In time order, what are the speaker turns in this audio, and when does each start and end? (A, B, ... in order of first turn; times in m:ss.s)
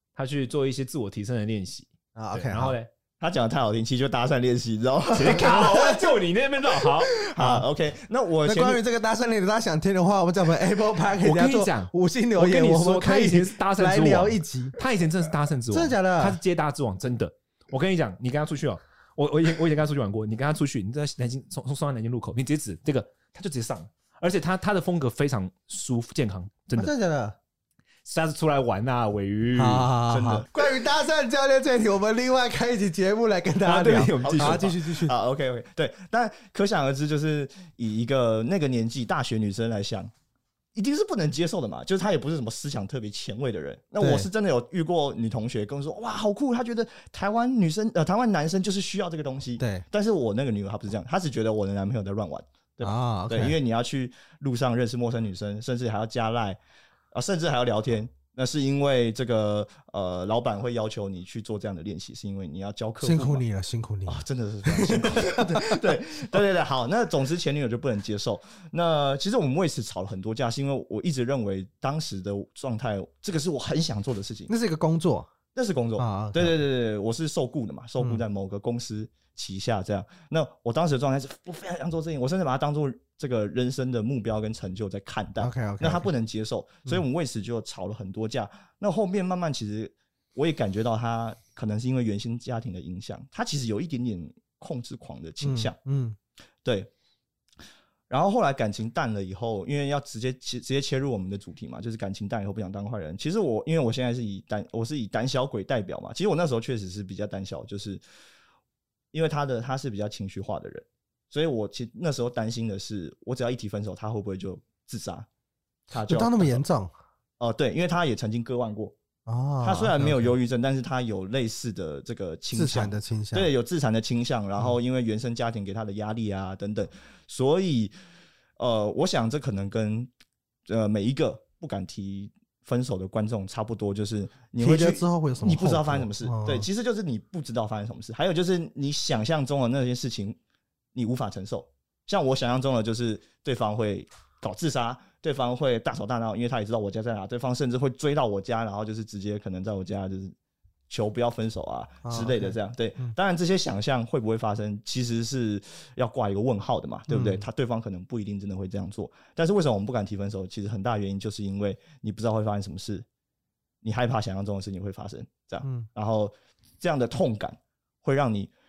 0:00.2-0:02.9 A
0:02.2-0:02.8 B
0:03.2-0:06.0 C
0:05.1-0:07.2 A
0:05.4-0:05.9 B
0:07.1-0:08.8 C
0:07.4-0:07.7 B
0:08.4-0:14.8 B
0:11.2-0:26.9 A
0:15.7-0:16.4 B
0:26.8-0:27.4 B
0:28.1-0:29.9 A
0:29.6-0:35.1 B
0:30.1-0:30.5 C
0:33.6-0:34.7 A
0:34.2-0:40.1 C
0:40.7-0:56.6 C
0:44.0-0:44.3 B
0:49.6-0:49.8 B
0:52.8-0:53.6 B
0:57.1-1:03.4 C
1:03.0-1:05.8 B
1:04.1-1:14.5 C
1:14.5-1:15.3 B
1:15.6-1:35.8 C
1:16.0-1:16.6 B
1:25.4-1:26.1 B
1:35.4-1:36.2 B
1:36.6-1:36.9 C
1:38.1-1:48.0 C
1:49.1-1:55.3 C
1:55.9-1:56.6 C
1:56.1-1:56.9 B
1:57.4-1:59.0 C
1:59.3-2:00.3 B
1:59.6-2:07.9 C
2:02.5-2:03.5 B
2:08.6-2:10.1 C
2:10.7-2:20.4 C
2:14.6-2:16.7 B
2:20.9-2:30.4 C
2:30.9-2:43.1 C
2:32.0-2:33.1 B
2:37.1-2:37.4 B
2:43.8-2:48.5 C